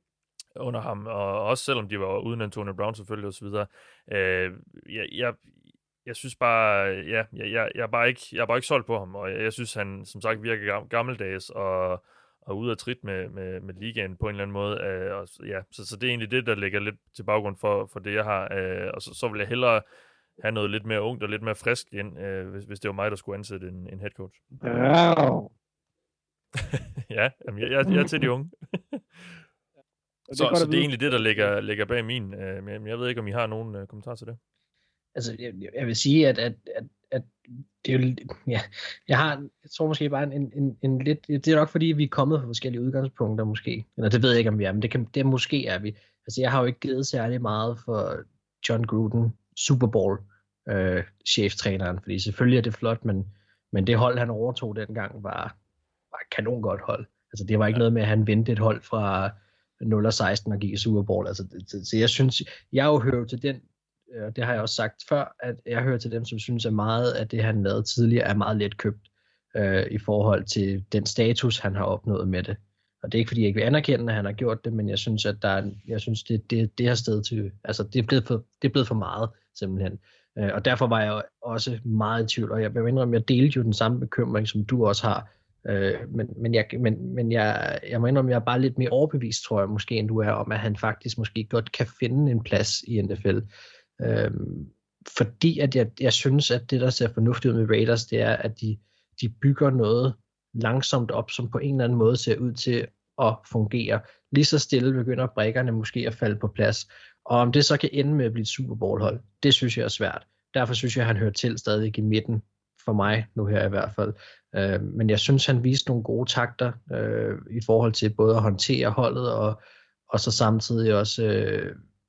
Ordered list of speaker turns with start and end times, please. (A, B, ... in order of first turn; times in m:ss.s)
0:00.6-0:05.4 A
0:06.0-0:19.8 A
0:20.4-0:24.5 A
0:24.6-0:25.5 B
0:26.6-0:29.4 A
0:30.3-0:31.5 B
0:30.3-0:34.4 A
0:35.1-0:37.3 C
0:37.8-0:55.6 C
0:56.1-1:33.4 C
1:34.0-1:59.6 C
2:00.1-2:01.8 C